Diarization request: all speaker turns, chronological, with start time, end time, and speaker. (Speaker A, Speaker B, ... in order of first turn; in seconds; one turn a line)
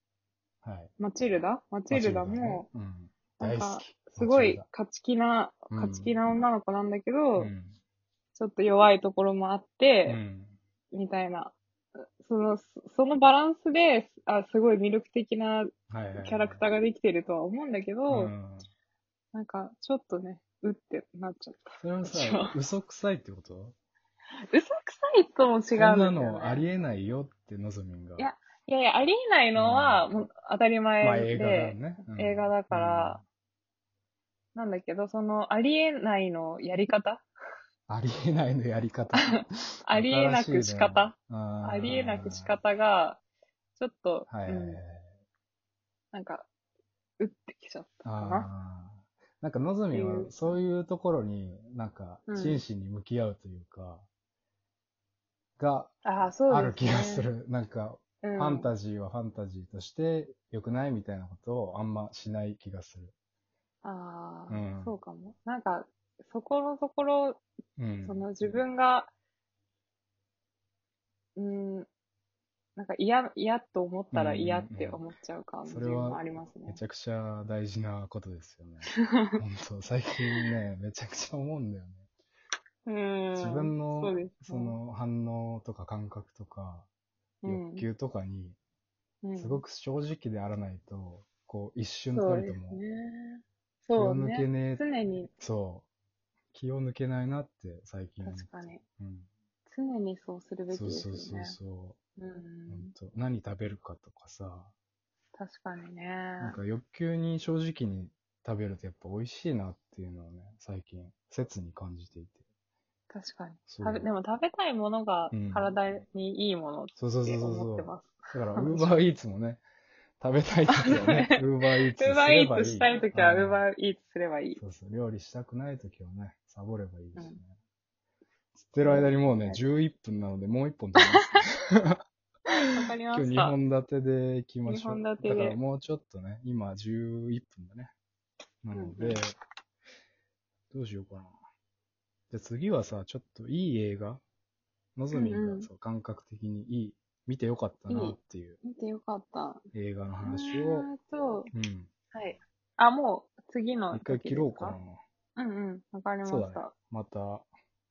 Speaker A: 0.6-0.9
Speaker B: 1.0-2.7
Speaker A: 1.9-4.7
Speaker B: 3.4-7.5
Speaker A: 5.7-6.1
Speaker A: 7.4-7.8
Speaker B: 8.3-10.2
Speaker A: 10.1-10.6
Speaker B: 10.9-11.6
Speaker B: 12.2-18.3
Speaker A: 15.9-16.6
Speaker A: 18.1-18.7
Speaker B: 19.3-22.6
Speaker A: 21.8-23.8
Speaker B: 24.5-26.6
Speaker A: 25.8-28.3
Speaker B: 28.2-33.2
Speaker A: 29.6-30.1
Speaker A: 31.0-33.2
Speaker B: 34.5-37.2
Speaker A: 37.9-42.5
Speaker B: 39.2-43.2
Speaker B: 43.8-44.8
Speaker A: 44.3-45.0
Speaker B: 46.1-46.5
Speaker B: 47.2-48.5
Speaker A: 48.0-54.1
Speaker B: 49.9-50.6
Speaker B: 52.3-52.6
Speaker A: 55.6-55.9
Speaker B: 56.0-57.3
Speaker A: 56.5-63.1
Speaker B: 58.2-58.7
Speaker B: 63.8-67.4
Speaker A: 64.5-65.0
Speaker A: 67.8-68.3
Speaker B: 68.0-69.1
Speaker B: 71.4-71.9
Speaker B: 72.8-76.8
Speaker A: 74.1-75.0
Speaker A: 75.7-82.1
Speaker B: 82.9-84.8
Speaker A: 83.3-86.9
Speaker B: 87.4-87.9
Speaker A: 87.5-88.6
Speaker B: 89.2-89.6
Speaker A: 89.4-92.8
Speaker B: 92.1-95.3
Speaker A: 94.0-94.8
Speaker A: 95.4-95.9
Speaker A: 96.5-99.3
Speaker B: 98.2-98.8
Speaker B: 99.7-101.6
Speaker A: 100.7-102.0
Speaker B: 102.2-102.9
Speaker A: 102.7-104.7
Speaker B: 105.4-106.6
Speaker A: 106.4-112.4
Speaker B: 113.1-119.0
Speaker A: 113.7-114.0
Speaker A: 115.3-115.6
Speaker A: 117.0-119.6
Speaker A: 120.2-123.7
Speaker B: 120.7-124.6
Speaker A: 124.6-127.5
Speaker A: 128.6-132.0
Speaker B: 128.8-129.6
Speaker B: 131.0-131.4
Speaker B: 132.6-133.6
Speaker A: 133.1-137.9
Speaker B: 134.7-135.6
Speaker A: 138.6-139.4
Speaker B: 138.7-139.2
Speaker A: 140.7-141.3
Speaker A: 142.3-144.2
Speaker A: 145.0-148.6
Speaker B: 145.1-145.7
Speaker B: 147.9-149.6
Speaker A: 149.7-150.9
Speaker B: 150.2-151.5
Speaker A: 151.5-151.9
Speaker B: 152.1-154.8
Speaker A: 153.9-155.0
Speaker B: 155.4-156.7
Speaker A: 156.2-157.5